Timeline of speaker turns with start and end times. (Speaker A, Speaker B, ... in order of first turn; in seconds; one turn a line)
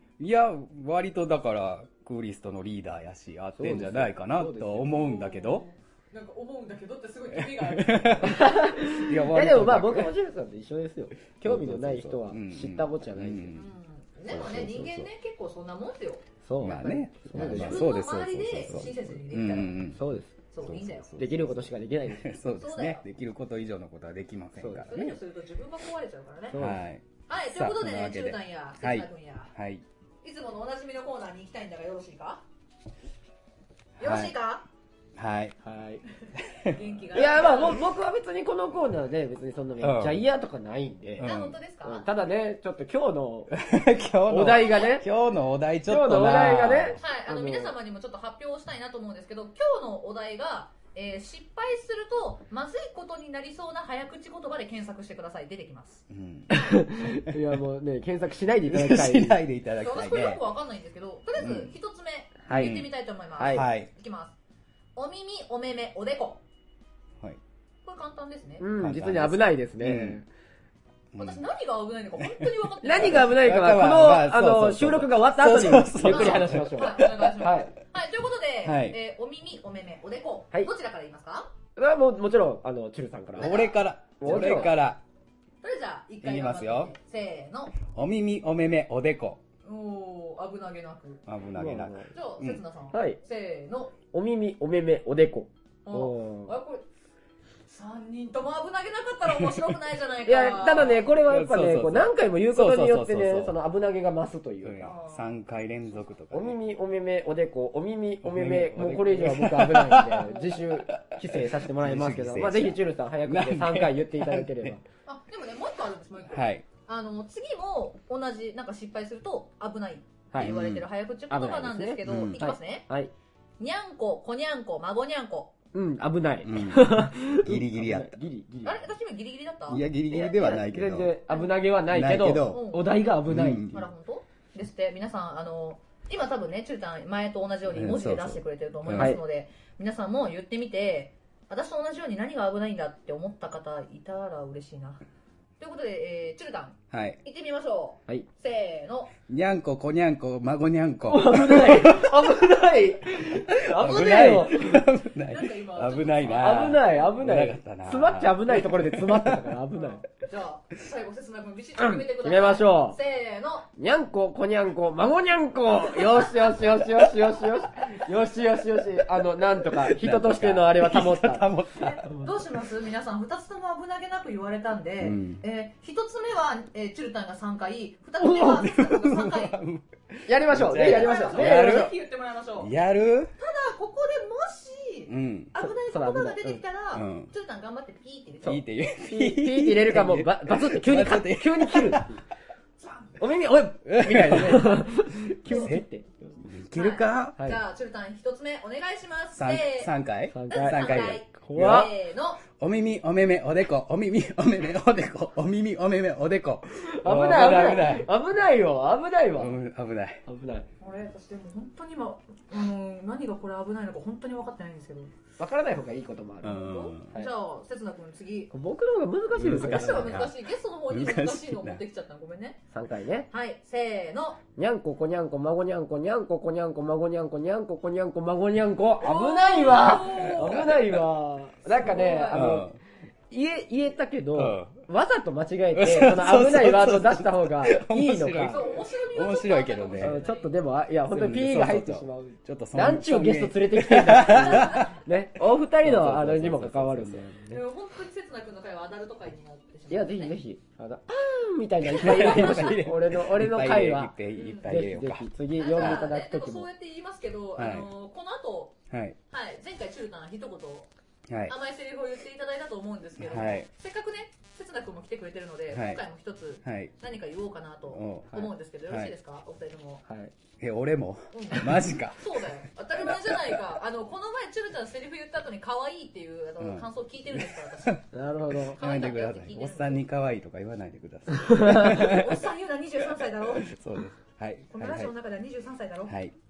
Speaker A: 0.2-5.7
Speaker B: 3.6-5.0
Speaker C: 4.9-8.4
Speaker A: 7.3-10.1
Speaker B: 8.2-13.6
Speaker A: 11.4-13.7
Speaker C: 13.5-16.3
Speaker A: 14.3-15.1
Speaker B: 16.4-17.9
Speaker A: 16.6-20.0
Speaker C: 17.3-19.8
Speaker B: 19.9-20.4
Speaker C: 20.5-21.1
Speaker A: 20.6-25.2
Speaker B: 21.2-22.3
Speaker C: 22.6-23.1
Speaker B: 24.6-25.1
Speaker C: 24.9-26.6
Speaker B: 26.5-26.8
Speaker A: 26.6-29.9
Speaker C: 27.3-29.5
Speaker C: 30.2-32.4
Speaker A: 34.0-34.4
Speaker C: 34.0-34.7
Speaker A: 35.2-35.6
Speaker B: 35.6-36.0
Speaker A: 36.4-37.4
Speaker C: 36.7-37.8
Speaker B: 37.1-41.3
Speaker A: 39.8-40.2
Speaker A: 41.2-41.6
Speaker C: 41.2-42.1
Speaker B: 41.8-43.6
Speaker A: 43.5-47.0
Speaker B: 44.3-45.1
Speaker C: 44.5-45.0
Speaker B: 45.9-47.8
Speaker C: 47.0-56.7
Speaker A: 56.1-57.4
Speaker B: 56.5-59.4
Speaker A: 58.7-60.4
Speaker C: 59.8-64.4
Speaker A: 61.4-61.7
Speaker A: 62.5-62.9
Speaker B: 62.5-62.8
Speaker B: 63.4-63.7
Speaker A: 63.4-63.9
Speaker C: 65.0-66.4
Speaker C: 67.8-68.7
Speaker B: 68.6-70.3
Speaker A: 68.8-70.2
Speaker A: 71.1-71.4
Speaker C: 71.2-73.4
Speaker B: 72.8-77.7
Speaker A: 72.8-77.4
Speaker C: 76.0-81.5
Speaker A: 78.6-79.0
Speaker B: 81.8-83.6
Speaker C: 83.4-84.7
Speaker A: 83.4-85.0
Speaker B: 84.2-84.7
Speaker C: 85.6-87.8
Speaker A: 86.2-86.9
Speaker A: 87.8-89.4
Speaker C: 89.7-91.2
Speaker A: 91.3-92.6
Speaker B: 91.5-92.1
Speaker C: 92.1-94.0
Speaker B: 92.9-93.2
Speaker B: 94.1-96.5
Speaker C: 95.8-96.9
Speaker C: 97.7-101.0
Speaker A: 99.3-99.6
Speaker B: 100.3-104.9
Speaker A: 101.2-103.5
Speaker A: 104.6-106.6
Speaker C: 104.8-105.3
Speaker B: 106.3-114.8
Speaker A: 108.2-114.8
Speaker C: 110.3-110.6
Speaker C: 115.1-122.9
Speaker A: 116.3-116.7
Speaker A: 120.4-120.9
Speaker B: 121.3-123.1
Speaker A: 122.0-122.5
Speaker C: 123.6-125.5
Speaker B: 125.7-128.8
Speaker A: 126.4-128.2
Speaker C: 128.6-129.8
Speaker A: 129.7-131.1
Speaker B: 130.1-133.7
Speaker C: 131.3-131.6
Speaker A: 131.9-133.9
Speaker C: 132.5-132.9
Speaker C: 133.7-145.0
Speaker A: 137.7-139.2
Speaker B: 139.0-139.2
Speaker C: 145.6-149.1
Speaker A: 146.9-147.2
Speaker A: 149.3-152.2
Speaker B: 151.1-154.9
Speaker A: 153.5-159.6
Speaker C: 155.3-156.8
Speaker B: 156.3-160.0
Speaker C: 159.7-163.7
Speaker B: 161.8-163.0
Speaker B: 163.8-171.5
Speaker A: 169.7-172.2
Speaker C: 171.8-179.6
Speaker A: 175.0-175.4
Speaker A: 178.3-181.9
Speaker B: 180.3-181.9
Speaker C: 180.8-182.7
Speaker A: 182.6-183.3
Speaker C: 183.4-188.7
Speaker A: 185.1-185.5
Speaker B: 185.6-186.6
Speaker A: 186.9-187.3
Speaker A: 188.4-192.2
Speaker B: 189.0-192.2
Speaker C: 192.8-193.2
Speaker B: 193.2-196.4
Speaker A: 193.8-195.8
Speaker A: 196.4-197.4
Speaker C: 196.7-199.9
Speaker A: 199.3-208.1
Speaker B: 200.3-201.9
Speaker C: 200.5-202.4
Speaker B: 206.8-209.5
Speaker A: 209.3-210.2
Speaker B: 210.3-210.7
Speaker C: 210.8-215.1
Speaker B: 215.4-217.3
Speaker A: 216.4-217.2
Speaker C: 216.4-218.5
Speaker B: 218.5-220.2
Speaker A: 219.4-221.8
Speaker C: 219.4-222.6
Speaker B: 222.7-223.3
Speaker C: 223.3-224.4
Speaker B: 224.6-232.8
Speaker C: 229.0-230.8
Speaker A: 229.8-231.1
Speaker C: 231.7-232.5
Speaker A: 232.3-232.8
Speaker B: 233.3-238.8
Speaker A: 234.3-234.8
Speaker A: 235.7-240.2
Speaker C: 238.4-240.6
Speaker B: 240.0-247.6
Speaker A: 241.1-245.0
Speaker A: 245.8-247.3
Speaker C: 247.5-250.4
Speaker B: 249.9-256.7
Speaker A: 251.8-255.3
Speaker C: 252.0-252.7
Speaker C: 254.4-254.7
Speaker C: 255.6-258.8
Speaker A: 255.8-256.1
Speaker A: 257.6-257.9
Speaker A: 258.9-259.2
Speaker C: 259.3-260.9
Speaker C: 261.5-270.0
Speaker A: 263.2-263.7
Speaker A: 265.7-266.0
Speaker A: 266.6-266.9
Speaker A: 267.9-269.1
Speaker B: 270.1-270.3
Speaker A: 270.6-272.5
Speaker C: 271.3-278.1
Speaker A: 276.6-278.0
Speaker B: 278.1-278.8
Speaker A: 278.5-282.4
Speaker C: 278.8-280.1
Speaker C: 281.6-283.7
Speaker A: 283.3-285.1
Speaker C: 284.7-286.1
Speaker A: 286.1-286.4